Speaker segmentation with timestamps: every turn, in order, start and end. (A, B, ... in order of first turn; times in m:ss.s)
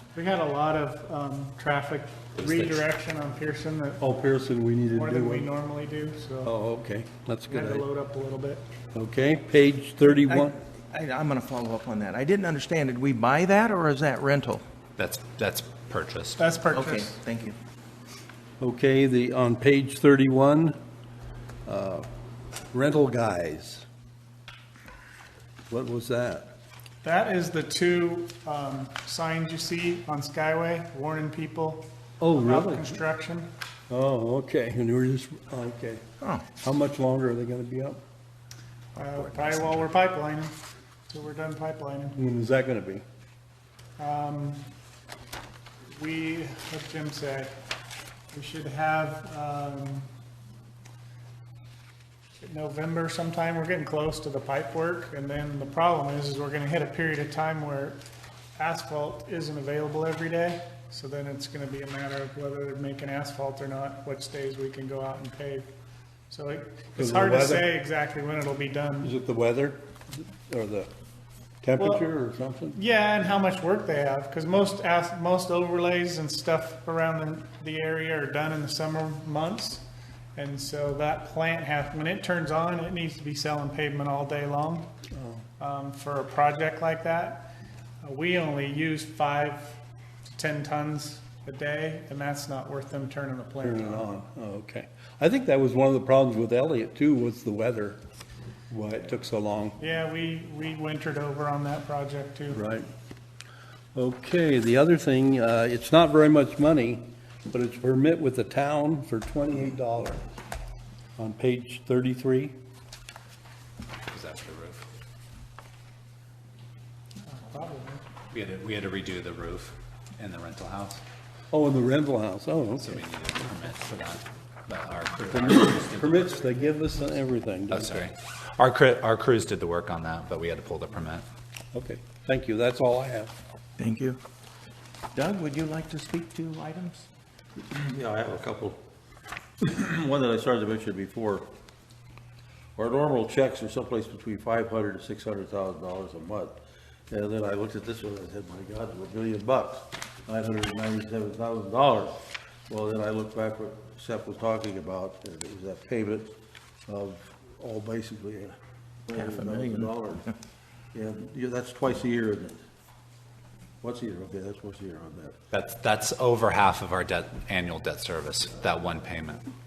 0:00.1-0:04.0 A
0:02.4-0:02.8 B
0:04.0-0:05.5 C
0:04.9-0:06.5 A
0:06.4-0:07.9 C
0:07.5-0:08.6 A
0:08.9-0:10.6 C
0:10.1-0:14.6 D
0:15.0-0:16.5 B
0:16.4-0:17.2 A
0:16.7-0:17.6 D
0:18.6-0:20.8 C
0:21.6-0:22.1 C
0:22.7-0:23.8 C
0:25.7-0:26.5 C
0:27.0-0:33.5 A
0:32.2-0:33.0 C
0:33.9-0:38.0 C
0:39.0-0:40.5 A
0:39.0-0:39.8 D
0:41.1-0:42.2 A
0:42.1-0:43.0 C
0:44.0-0:44.7 A
0:45.9-0:47.5 A
0:48.3-0:50.1 A
0:52.4-0:58.0 A
0:58.6-1:05.6 A
1:06.3-1:09.2 A
1:07.0-1:07.7 C
1:09.0-1:10.9 C
1:11.6-1:12.8 C
1:11.8-1:12.1 A
1:12.7-1:19.8 A
1:20.4-1:24.9 A
1:25.1-1:25.4 C
1:25.6-1:27.5 A
1:28.0-1:29.8 A
1:30.4-1:34.1 A
1:33.6-1:38.0 C
1:38.7-1:39.8 C
1:39.8-1:42.6 A
1:42.5-1:42.9 C
1:43.9-1:50.2 C
1:51.2-1:52.5 C
1:54.1-1:54.8 B
1:57.3-1:58.0 A
1:58.3-2:01.0 B
2:01.5-2:03.0 C
2:02.8-2:06.3 B
2:05.3-2:08.1 C
2:07.7-2:11.2 B
2:11.7-2:13.3 C
2:13.8-2:14.2 D
2:15.1-2:17.0 D
2:17.7-2:18.8 E
2:19.6-2:21.4 E
2:22.8-2:26.6 E
2:27.1-2:36.3 E
2:36.9-2:38.6 E
2:39.0-2:40.3 D
2:39.1-2:40.2 E
2:40.9-2:42.6 E
2:43.8-2:45.4 E
2:45.5-2:49.5 B